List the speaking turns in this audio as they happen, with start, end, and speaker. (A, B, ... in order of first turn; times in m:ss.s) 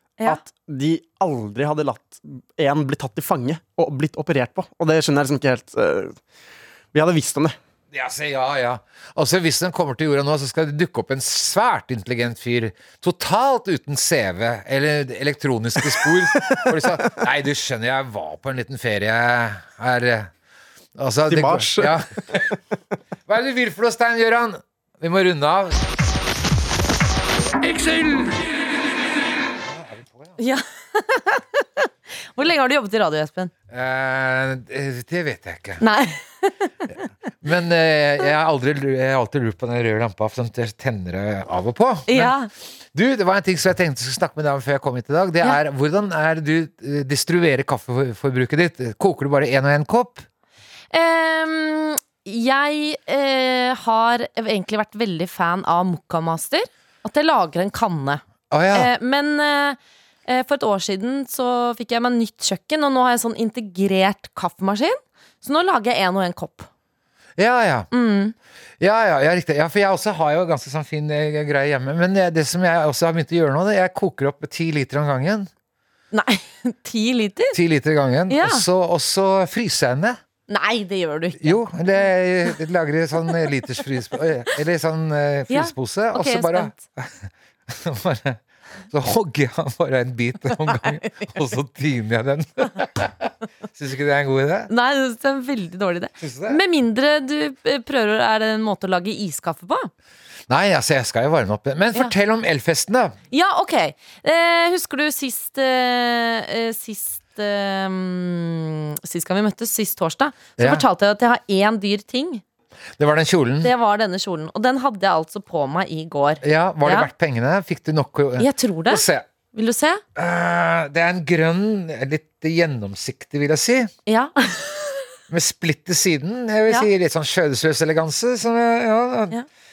0:00.2-0:06.2 A
0:06.9-0:07.6 A
0:07.9-0:20.3 B
0:16.5-0:16.8 A
0:21.0-0:22.6 B
0:21.3-0:22.5 A
0:23.3-0:25.8 B
0:27.8-0:28.2 B
0:29.6-0:30.4 B
0:30.4-0:33.5 C
0:33.7-0:35.8 B
0:35.8-0:36.7 C
0:37.4-0:42.3 B
0:42.1-0:42.5 C
0:42.9-0:50.2 B
0:50.9-1:06.7 C
0:58.5-0:58.9 B
1:07.4-1:07.9 B
1:07.9-1:08.3 C
1:08.8-1:15.5 B
1:16.1-1:17.6 C
1:17.5-1:20.2 B
1:18.3-1:18.6 C
1:20.5-1:21.6 C
1:21.4-1:28.4 B
1:25.5-1:26.8 C
1:28.9-1:34.7 B
1:30.6-1:31.4 C
1:34.7-1:39.9 C
1:36.2-1:36.6 B
1:40.5-1:43.1 B
1:43.3-1:52.4 C
1:50.6-1:50.8 B
1:53.0-1:53.7 B
1:53.6-1:57.1 C
1:56.4-1:59.3 B
1:58.4-2:00.0 C
2:00.2-2:03.9 B
2:04.1-2:05.0 C
2:05.3-2:09.4 B